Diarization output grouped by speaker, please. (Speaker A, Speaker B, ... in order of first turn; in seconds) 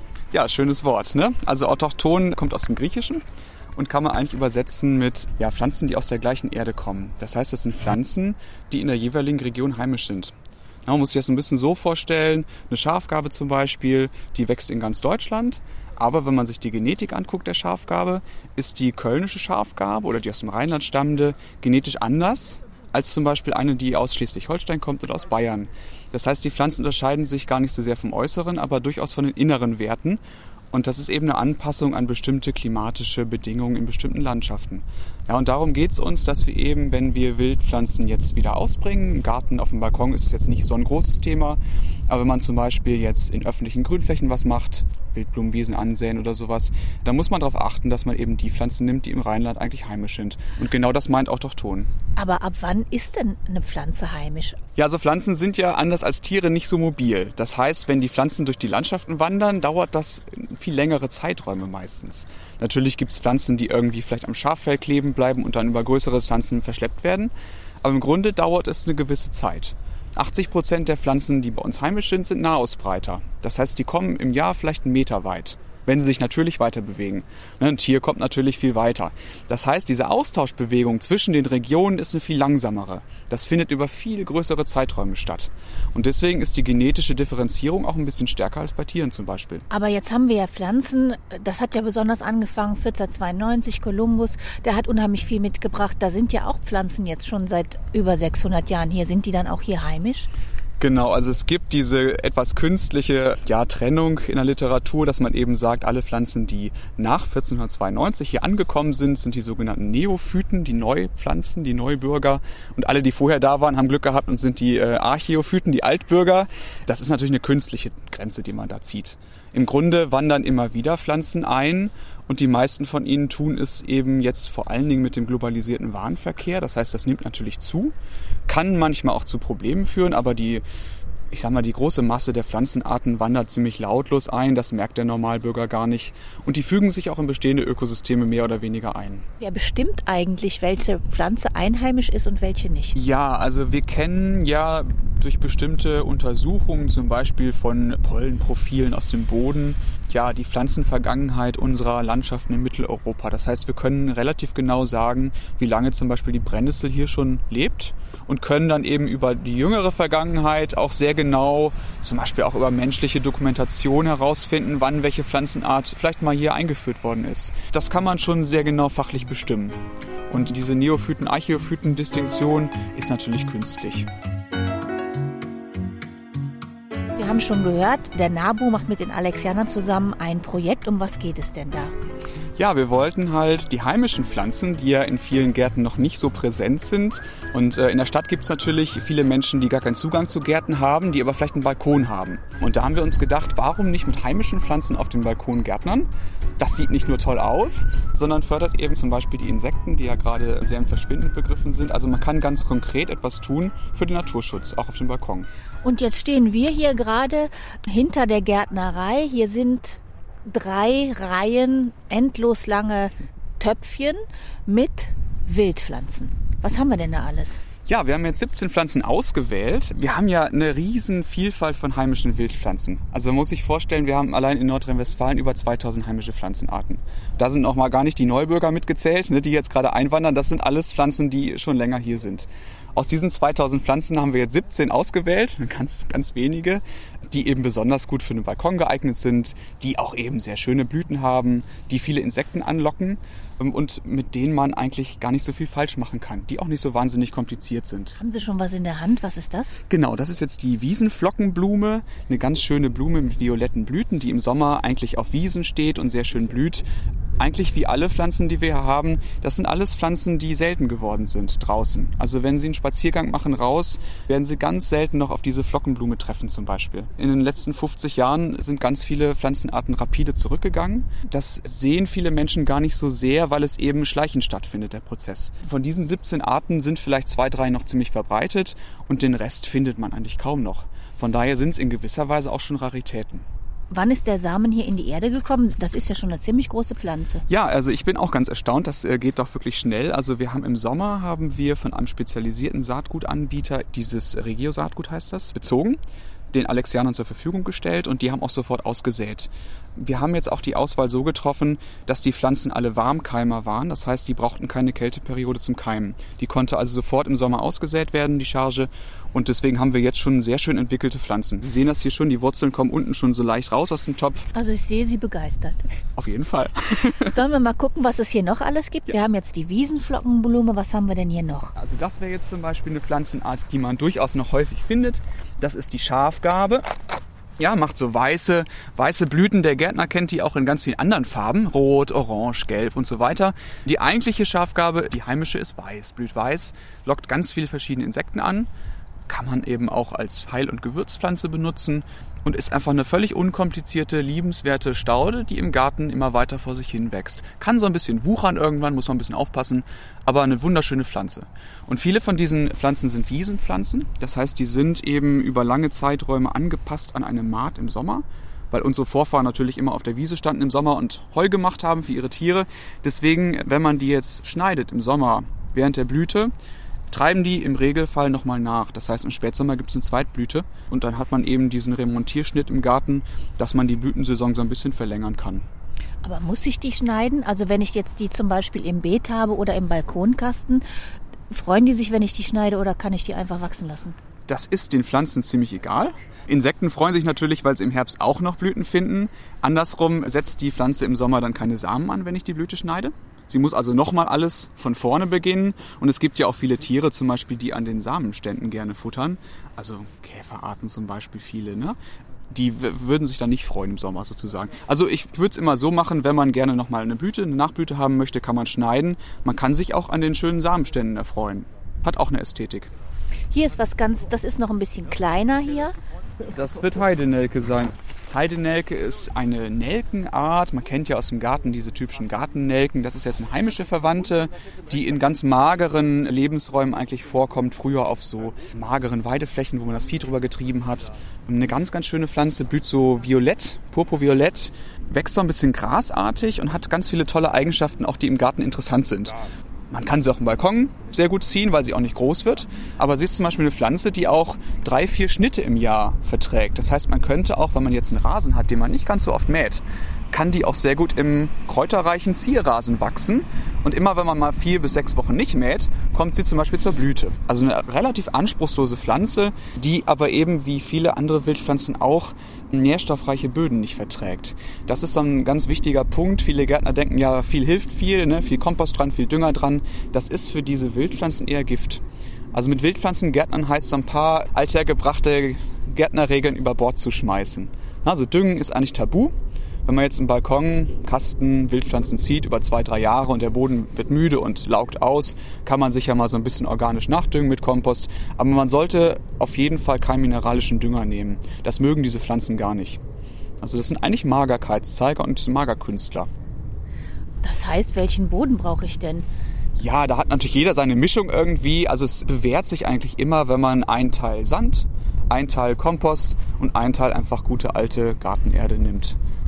Speaker A: 0.3-3.2, 3.8-10.3, 10.8-30.2, 30.7-51.9, 54.8-89.7, 100.8-127.9, 128.5-130.6, 131.3-139.2, 142.9-169.8, 170.3-174.1, 182.6-205.5, 217.8-248.2, 249.9-256.9, 257.4-283.5, 287.5-296.0, 296.5-314.5, 316.1-317.3, 321.8-326.9, 327.6-338.7, 339.3-366.5, 367.1-375.6, 384.5-402.0, 402.5-412.9, 416.5-479.3, 479.9-493.0, 493.6-496.3, 499.8-509.2
Speaker B: 52.1-54.6, 89.7-100.3, 139.4-143.0, 177.2-181.9, 205.8-217.6, 248.2-249.7, 283.9-287.4, 314.5-315.8, 317.2-321.7, 376.2-380.8, 381.5-384.2, 413.5-415.9, 497.4-499.2